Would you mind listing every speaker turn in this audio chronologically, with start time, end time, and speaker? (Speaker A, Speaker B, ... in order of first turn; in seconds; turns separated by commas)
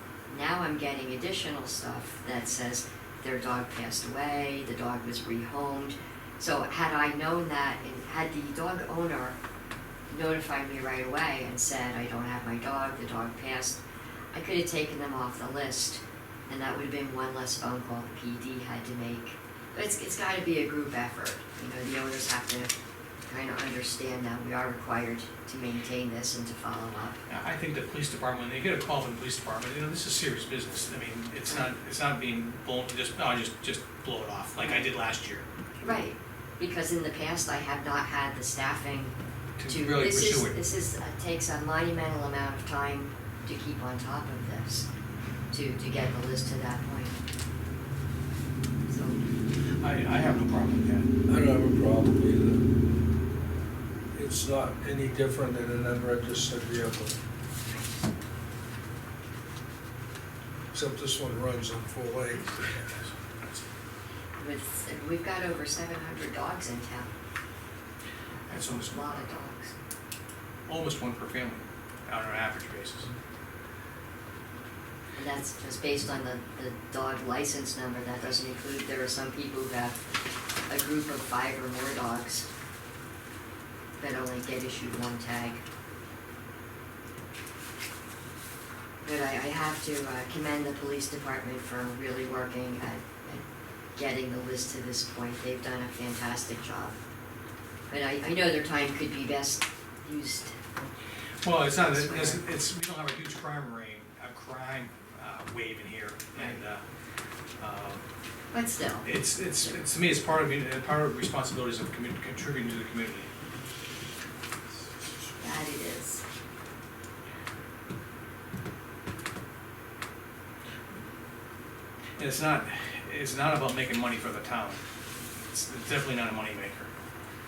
Speaker A: 0.3-9.4, Speaker A: 10.1-13.8, Speaker A: 14.3-22.7, Speaker A: 23.2-27.2, Speaker B: 27.3-35.5, Speaker A: 34.6-34.9, Speaker A: 35.8-39.1, Speaker B: 39.6-40.6, Speaker A: 39.7-44.9, Speaker A: 45.5-47.2, Speaker A: 48.9-49.2, Speaker B: 49.8-51.1, Speaker C: 51.3-52.6, Speaker C: 54.1-57.2, Speaker C: 60.7-62.6, Speaker B: 62.5-63.6, Speaker A: 64.4-67.1, Speaker A: 68.5-69.8, Speaker B: 68.5-69.4, Speaker B: 70.7-73.1, Speaker A: 75.2-80.0, Speaker A: 80.7-82.5, Speaker A: 84.0-85.6, Speaker A: 89.0-93.5, Speaker A: 94.0-97.0, Speaker A: 97.9-100.8, Speaker B: 101.4-106.8, Speaker A: 101.8-102.4, Speaker A: 106.3-106.6, Speaker B: 107.6-108.0, Speaker A: 108.5-109.1, Speaker B: 109.0-113.3, Speaker A: 115.4-116.2, Speaker B: 122.2-124.8, Speaker B: 125.5-126.9